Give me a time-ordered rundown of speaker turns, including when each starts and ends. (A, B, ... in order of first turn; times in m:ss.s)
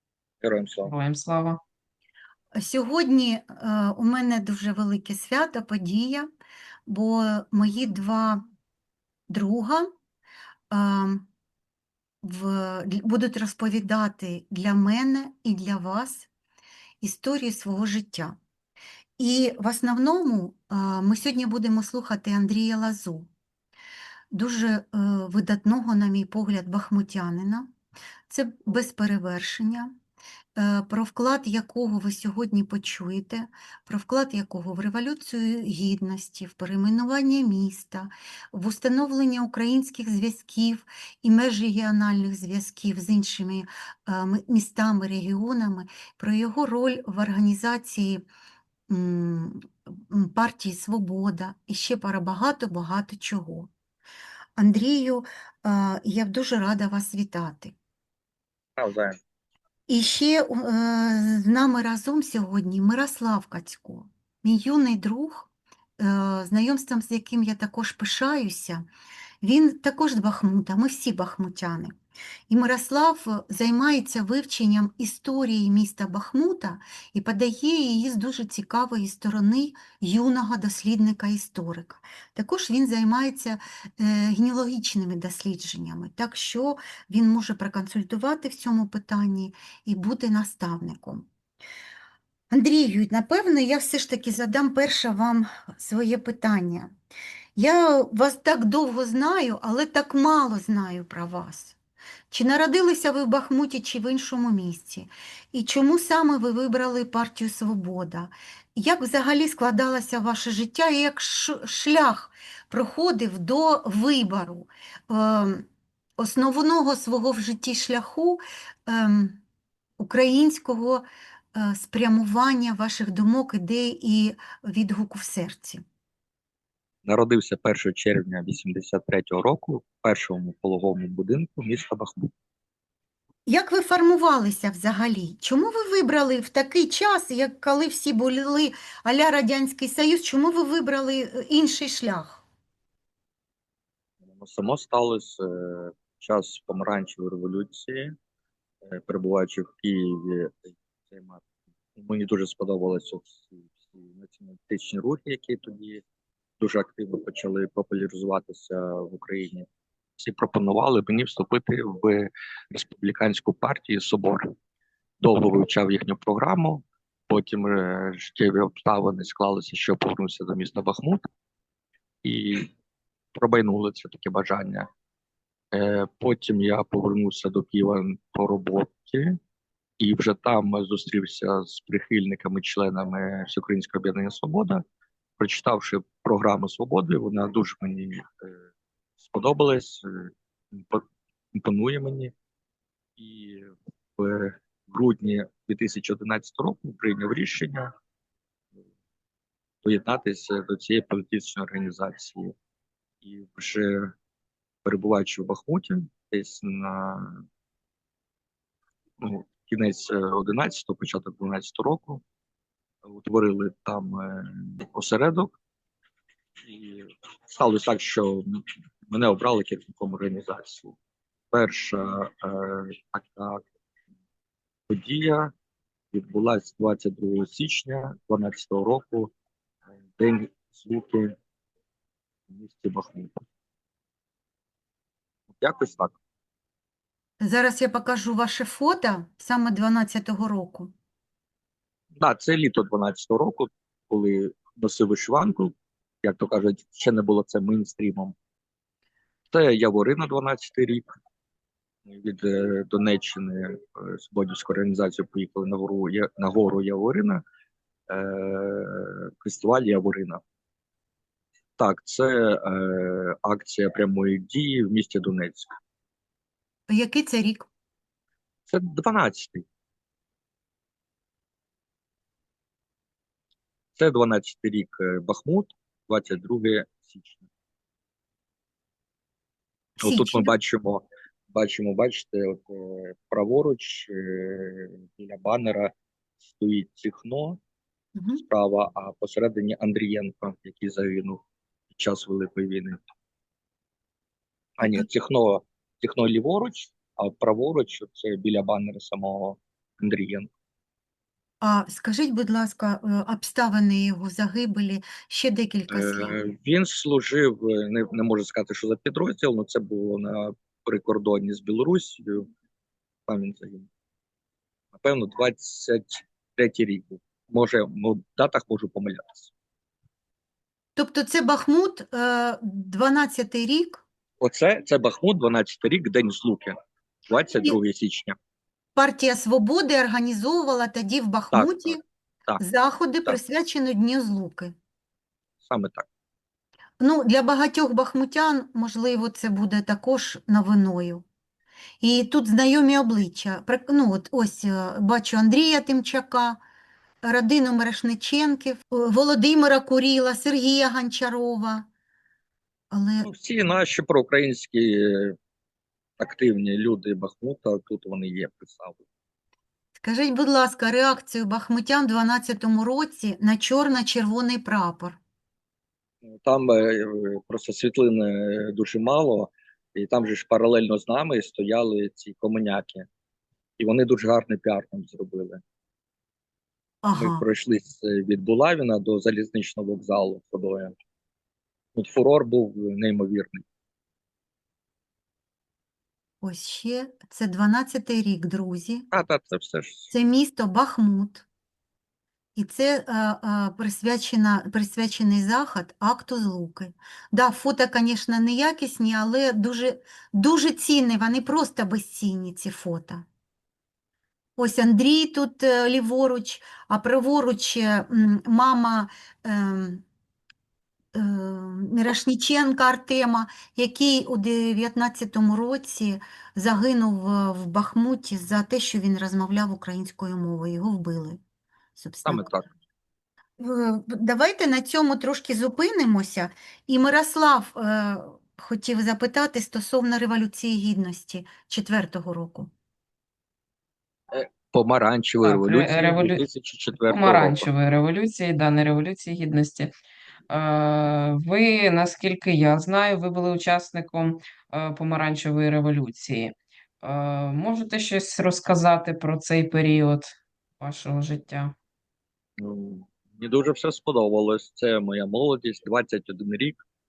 0:00.4-0:00.9 A
0:00.8-0:01.6 B
0:02.6-0:06.3 C
0:06.9-0:08.4 C
0:09.3-0:09.8 C
0:10.7-0:11.3 C
0:12.2-0:16.3 C
0:17.0-0:18.3 C
0:19.2-0:23.3 C
0:24.3-0:27.7 C
0:28.3-0:29.9 C
0:30.6-0:48.2 C
0:48.9-0:53.7 C
0:54.6-0:57.7 C
0:58.8-0:59.2 A
0:59.9-1:08.8 C
1:09.4-1:11.9 C
1:12.5-1:31.2 C
1:32.5-1:36.9 C
1:37.6-1:41.8 C
1:42.3-1:55.6 C
1:56.2-1:59.4 C
2:00.0-2:01.0 C
2:01.5-2:05.8 C
2:07.0-2:12.3 A
2:13.5-2:22.4 C
2:24.2-2:28.1 A
2:28.8-2:31.4 A
2:32.0-2:36.0 A
2:36.6-2:39.6 A
2:40.2-2:44.5 A
2:45.2-2:51.2 A
2:52.2-2:52.7 A
2:53.3-2:54.9 A
2:55.7-2:59.4 A
3:00.0-3:04.8 A
3:05.4-3:08.5 A
3:09.2-3:12.3 A
3:13.2-3:17.9 A
3:19.8-3:22.5 A
3:23.2-3:24.1 A
3:24.8-3:27.4 A
3:29.2-3:32.2 A
3:33.0-3:35.6 A
3:36.6-3:40.9 A
3:41.5-3:43.6 A
3:44.9-3:45.5 A
3:46.1-3:49.3 A
3:50.2-3:51.3 A
3:52.5-3:53.4 A
3:55.5-3:56.2 A
3:57.4-4:00.9 C
4:02.2-4:08.3 A
4:09.5-4:11.1 A
4:12.1-4:17.4 A
4:18.1-4:20.4 A
4:21.8-4:25.7 A
4:26.9-4:27.7 C
4:28.7-4:29.6 A
4:34.0-4:37.4 A
4:40.0-4:40.5 C
4:40.0-4:47.6 A
4:48.2-4:48.4 C
4:48.4-4:53.0 A
4:54.8-5:00.5 A
4:54.8-4:55.0 C
5:01.6-5:06.4 C
5:05.9-5:12.5 A
5:13.3-5:13.9 A
5:14.9-5:19.5 A
5:21.0-5:24.0 C
5:24.4-5:26.7 A
5:27.3-5:28.4 A
5:28.9-5:32.0 C
5:31.5-5:32.6 A
5:32.6-5:34.7 C
5:35.6-5:36.0 A
5:37.0-5:41.2 C
5:42.0-5:46.6 C
5:47.2-5:51.9 C
5:52.9-5:53.3 C
5:53.2-5:55.4 A
5:56.2-5:59.0 A
6:00.0-6:05.2 C
6:06.2-6:13.1 A
6:13.8-6:15.6 A
6:17.0-6:17.4 C
6:17.1-6:20.9 A
6:21.9-6:23.6 A
6:26.4-6:29.1 C
6:29.1-6:30.1 A
6:30.1-6:31.4 C
6:32.6-6:43.2 C
6:44.6-6:50.0 C
6:51.1-7:01.4 C
7:02.0-7:02.5 C
7:02.2-7:02.6 A
7:03.6-7:12.7 C
7:14.3-7:17.7 A
7:15.4-7:16.4 B
7:17.1-7:19.9 B
7:20.5-7:31.7 B
7:32.6-7:36.8 A